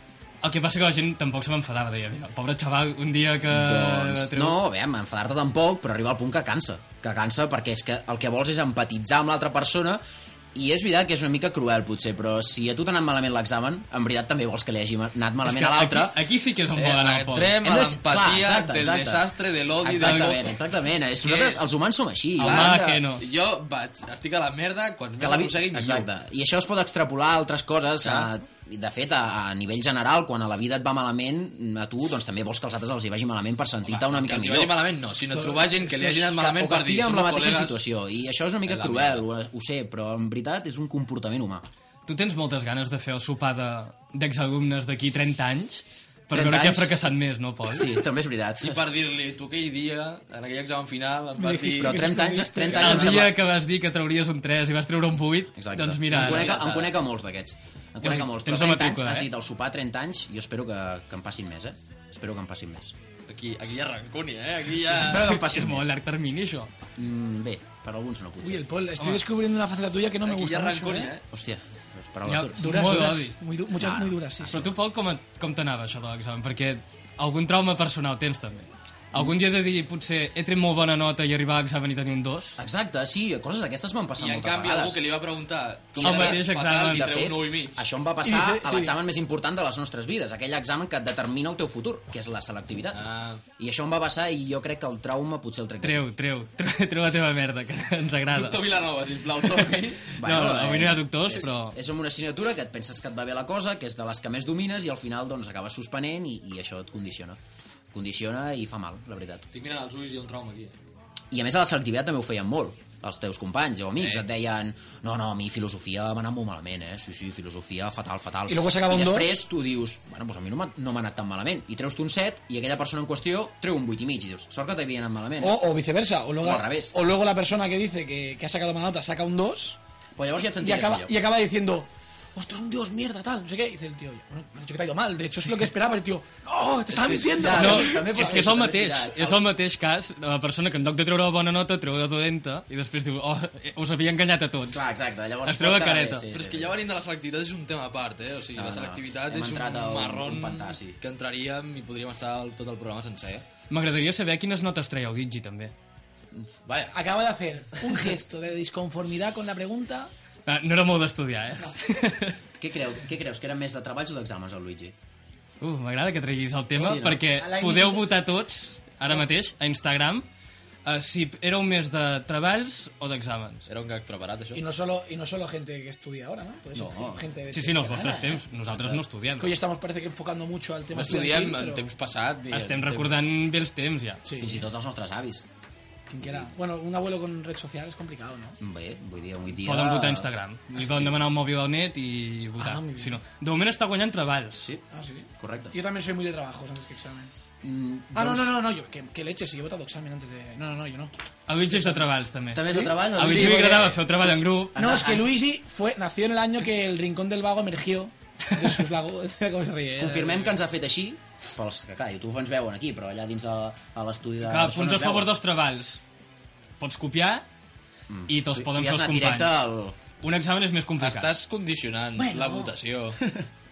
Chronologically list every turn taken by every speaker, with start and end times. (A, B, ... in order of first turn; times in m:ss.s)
0:00.4-0:04.6 A
0:03.5-0:10.0 B
0:10.5-0:16.2 B
0:15.4-0:17.5 A
0:16.7-0:20.6 C
0:17.6-0:19.3 B
0:19.8-0:23.1 B
0:20.0-0:20.4 A
0:21.2-0:21.7 C
0:22.4-0:23.2 A
0:22.4-0:26.1 C
0:25.2-0:34.8 B
0:28.0-0:28.3 C
0:33.9-0:37.8 C
0:35.3-0:36.3 D
0:36.3-0:41.7 B
0:38.7-0:39.2 C
0:42.1-0:48.0 A
0:46.3-0:46.9 B
0:47.7-0:48.8 B
0:48.6-0:52.2 C
0:51.4-0:53.1 D
0:51.8-0:53.4 B
0:52.8-0:56.6 A
0:55.5-1:03.0 B
0:56.1-0:57.0 C
0:58.0-0:59.3 A
1:03.3-1:05.4 C
1:04.9-1:05.9 B
1:05.3-1:06.7 A
1:07.0-1:08.6 B
1:08.4-1:11.1 D
1:10.2-1:11.2 C
1:11.3-1:13.0 B
1:12.3-1:13.4 A
1:12.6-1:14.6 D
1:13.8-1:14.7 B
1:14.5-1:22.6 A
1:22.6-1:25.0 B
1:24.2-1:27.8 C
1:25.9-1:36.1 B
1:26.0-1:27.2 A
1:28.2-1:29.0 D
1:32.9-1:33.4 C
1:35.8-1:38.6 A
1:38.3-1:40.1 C
1:40.2-1:47.4 B
1:40.2-1:41.8 A
1:47.9-1:49.5 B
1:49.5-1:50.8 C
1:51.3-2:05.6 B
1:58.5-1:59.3 D
2:05.4-2:09.8 D
2:06.4-2:06.9 B
2:10.2-2:11.2 B
2:10.6-2:18.5 D
2:16.9-2:19.5 B
2:17.5-2:24.8 A
2:24.7-2:26.8 B
2:25.4-2:26.3 A
2:26.3-2:33.4 C
2:28.5-2:31.0 B
2:33.7-2:35.7 A
2:36.3-2:36.9 B
2:36.8-2:40.1 D
2:40.5-2:42.4 A
2:42.6-2:45.0 B
2:45.6-2:50.3 A
2:46.8-2:47.1 B
2:46.8-2:48.2 D
2:50.8-2:53.7 A
2:53.7-2:54.6 C
2:54.6-2:58.2 D
2:56.7-2:59.0 B
2:57.5-2:59.5 A
2:59.4-3:01.8 D
3:00.9-3:03.2 C
3:02.5-3:04.2 A
3:04.2-3:04.6 D
3:04.4-3:05.5 B
3:06.1-3:08.6 D
3:06.2-3:06.5 B
3:08.6-3:11.1 B
3:09.6-3:14.6 A
3:12.6-3:13.2 D
3:14.6-3:14.8 B
3:14.9-3:17.3 D
3:15.4-3:15.8 B
3:17.6-3:18.6 B
3:18.2-3:21.1 D
3:21.5-3:24.8 A
3:21.7-3:22.0 D
3:22.5-3:24.0 B
3:23.3-3:23.9 D
3:24.7-3:25.3 B
3:24.8-3:30.5 D
3:30.0-3:35.3 B
3:34.4-3:36.0 A
3:36.8-3:37.4 A
3:38.1-3:40.0 B
3:38.3-3:39.6 A
3:40.2-3:41.3 A
3:41.0-3:43.2 C
3:42.2-3:42.7 D